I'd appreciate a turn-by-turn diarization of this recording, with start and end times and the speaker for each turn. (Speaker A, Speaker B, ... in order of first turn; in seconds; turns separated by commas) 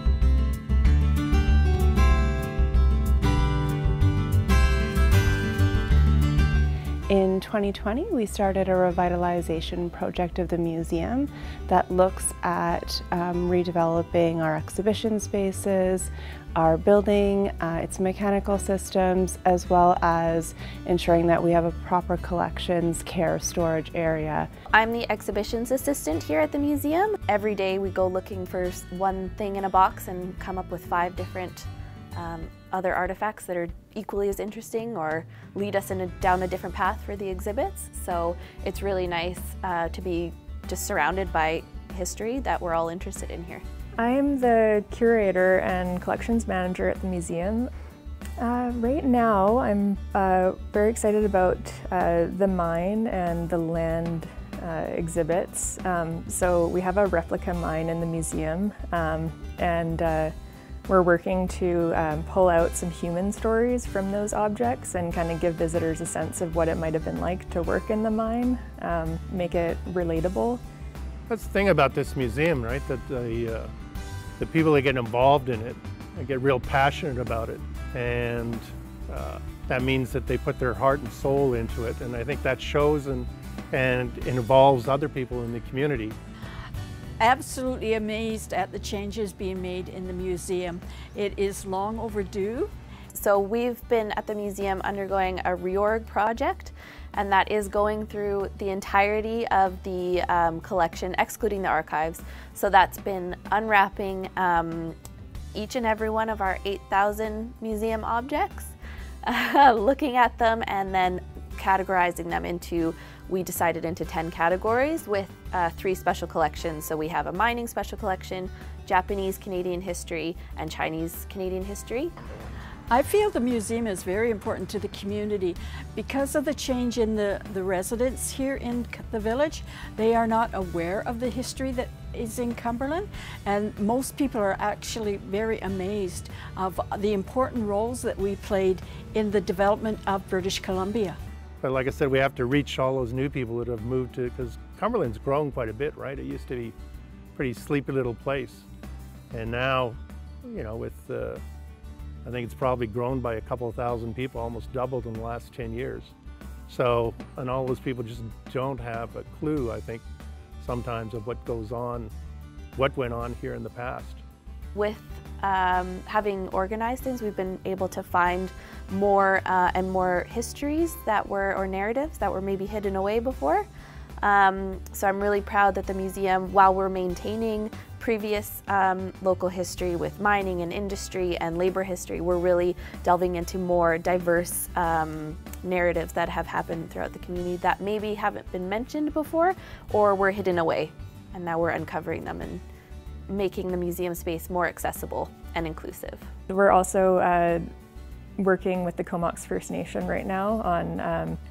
Speaker A: 7.1-24.5, Speaker B: 24.7-43.6, Speaker C: 44.0-47.7, Speaker C: 48.4-60.3, Speaker C: 60.9-70.6, Speaker D: 71.3-73.7, Speaker D: 74.4-86.2, Speaker E: 87.2-92.7, Speaker B: 93.1-105.0, Speaker B: 105.5-122.1, Speaker E: 122.9-141.2, Speaker D: 141.6-146.8, Speaker D: 147.3-148.7, Speaker D: 149.3-151.4, Speaker D: 152.2-156.1, Speaker D: 156.7-160.0, Speaker D: 160.6-162.1, Speaker D: 162.8-164.2, Speaker B: 164.8-173.7, Speaker B: 174.2-192.6, Speaker B: 193.3-196.3, Speaker C: 196.5-197.7, Speaker C: 198.4-201.4